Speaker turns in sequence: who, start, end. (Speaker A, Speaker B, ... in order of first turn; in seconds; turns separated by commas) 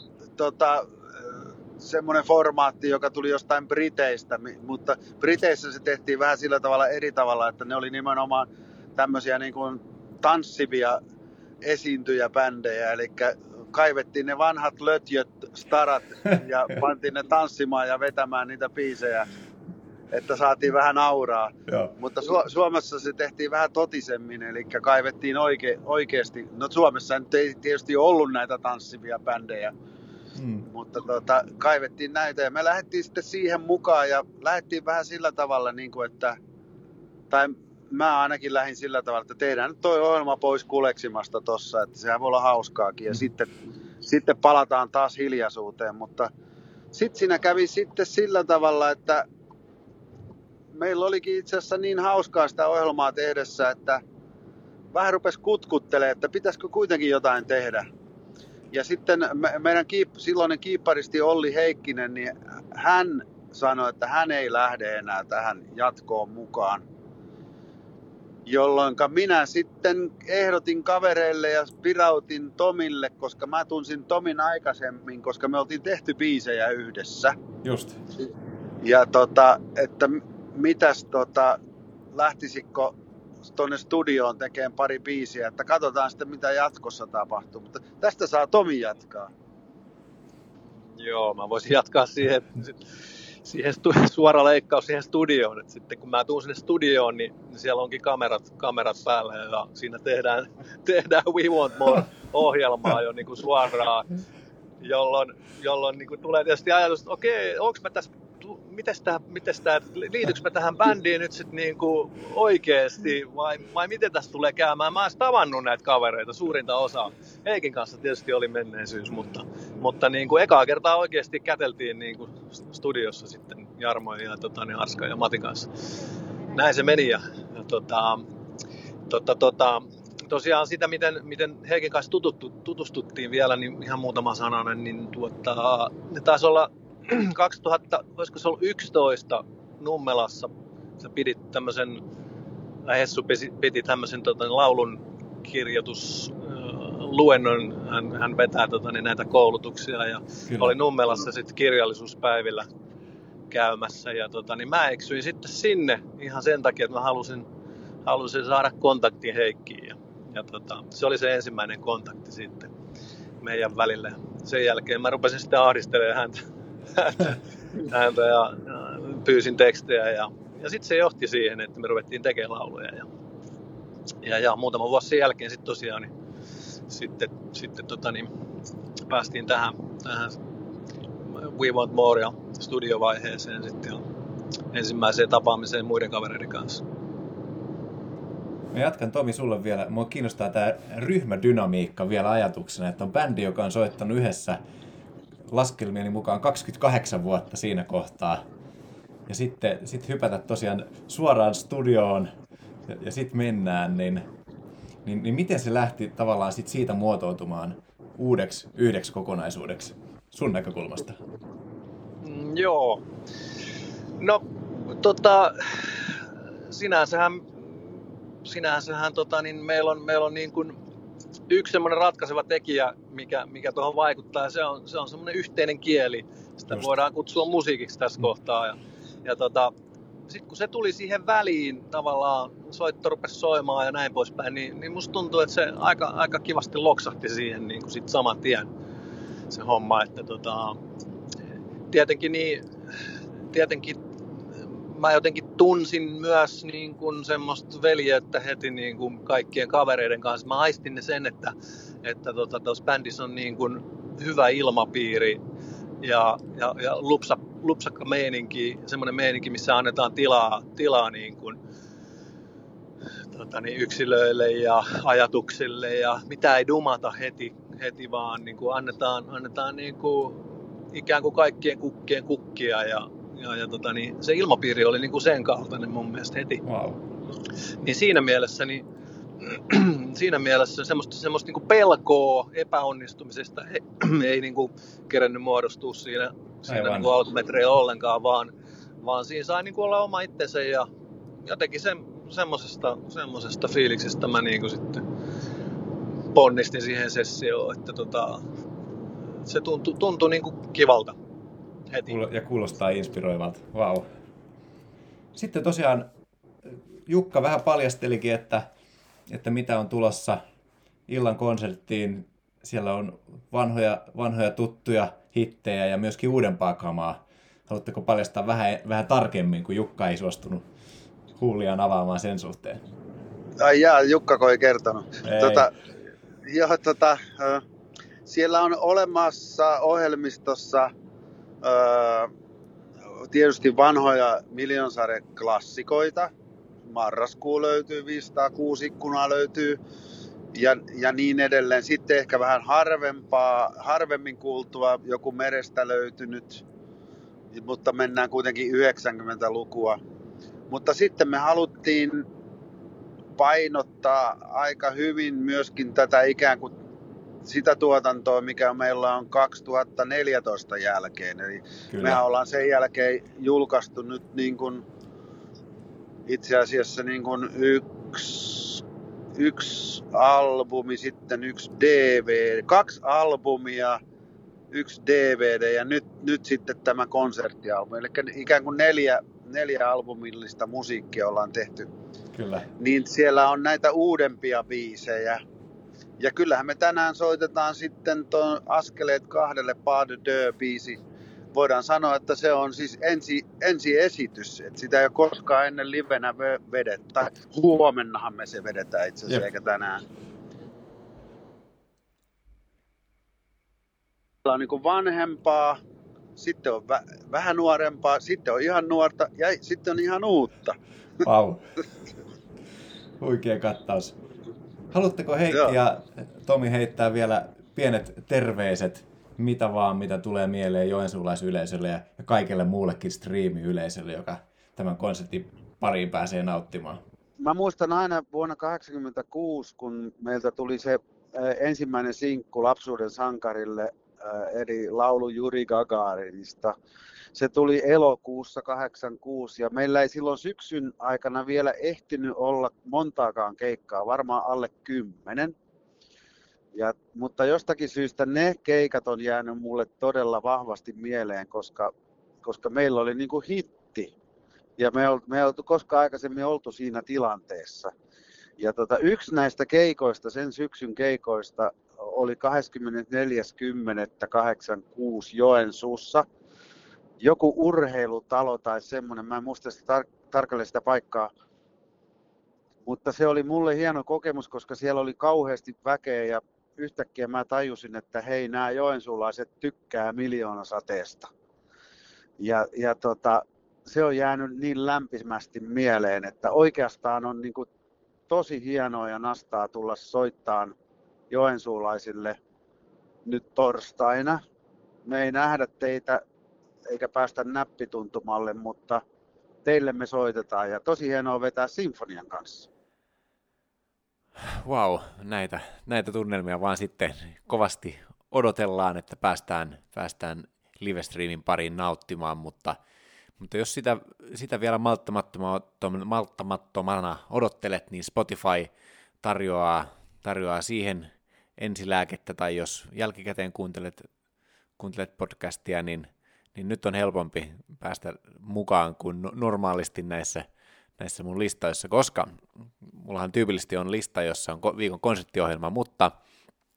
Speaker A: 0.4-11.0, Speaker A: 11.6-19.3, Speaker A: 20.1-29.7, Speaker B: 21.7-21.9, Speaker B: 30.4-30.6, Speaker A: 30.7-36.4, Speaker A: 37.3-43.5, Speaker A: 44.0-46.3, Speaker A: 46.9-49.2, Speaker A: 50.7-54.0, Speaker A: 54.9-57.9, Speaker A: 58.7-66.8, Speaker A: 68.5-77.3, Speaker B: 77.6-78.0, Speaker A: 78.8-81.6, Speaker A: 82.1-82.9, Speaker A: 83.5-89.3, Speaker C: 91.0-92.8, Speaker C: 93.4-104.1, Speaker C: 104.8-125.8, Speaker C: 126.5-128.2, Speaker C: 129.1-142.0, Speaker C: 142.8-152.7, Speaker B: 150.5-150.7, Speaker C: 153.5-157.4, Speaker C: 158.0-162.7, Speaker C: 163.4-166.4, Speaker C: 166.9-173.1, Speaker C: 174.2-176.1, Speaker C: 176.9-178.3, Speaker C: 179.1-180.4, Speaker C: 181.3-184.0, Speaker C: 184.7-186.8, Speaker B: 188.7-194.6, Speaker B: 195.5-198.4, Speaker B: 199.3-202.3, Speaker B: 202.9-204.2, Speaker B: 205.0-211.2, Speaker C: 212.2-213.0, Speaker C: 214.2-220.8, Speaker C: 221.5-229.7, Speaker C: 230.3-238.7, Speaker C: 239.5-240.8, Speaker C: 241.9-242.7, Speaker C: 243.5-244.0, Speaker C: 244.9-255.4, Speaker C: 256.0-261.6, Speaker C: 263.3-276.6, Speaker B: 276.6-277.0, Speaker C: 277.8-278.8, Speaker C: 279.4-290.9, Speaker B: 286.7-287.1, Speaker C: 291.4-295.0, Speaker C: 296.3-298.4, Speaker C: 299.4-301.1, Speaker C: 301.9-302.1, Speaker B: 302.1-304.1, Speaker B: 305.3-306.1, Speaker B: 306.6-308.7, Speaker B: 309.3-310.4, Speaker B: 311.1-320.6, Speaker B: 321.4-322.8, Speaker A: 323.6-325.7, Speaker B: 325.2-325.7, Speaker A: 326.4-327.6, Speaker A: 328.2-330.9, Speaker A: 331.6-332.3, Speaker A: 333.3-336.3, Speaker A: 336.9-339.8, Speaker A: 340.5-346.6, Speaker A: 347.5-350.0, Speaker A: 350.7-352.2, Speaker A: 353.4-356.7, Speaker A: 357.4-364.8, Speaker B: 361.9-362.2, Speaker A: 366.3-368.8, Speaker A: 369.4-374.0, Speaker A: 374.7-381.9, Speaker B: 382.3-382.7, Speaker A: 382.8-385.4, Speaker A: 386.2-391.0, Speaker A: 391.5-400.0, Speaker A: 404.4-405.8, Speaker A: 406.4-410.8, Speaker B: 411.2-411.7, Speaker B: 413.2-414.1, Speaker B: 414.9-427.0, Speaker A: 427.4-436.8, Speaker A: 437.3-445.5, Speaker A: 446.7-451.9, Speaker A: 452.4-454.1, Speaker A: 454.8-457.9, Speaker A: 458.6-466.2, Speaker A: 467.2-471.3, Speaker A: 472.9-481.3, Speaker A: 482.4-487.7, Speaker A: 488.3-490.7, Speaker A: 491.3-492.4, Speaker A: 493.2-494.4, Speaker A: 495.1-496.2, Speaker A: 496.9-499.0, Speaker A: 499.6-502.7, Speaker B: 504.5-512.8, Speaker B: 513.4-518.7, Speaker B: 519.2-524.1, Speaker B: 524.8-530.5, Speaker B: 531.0-536.1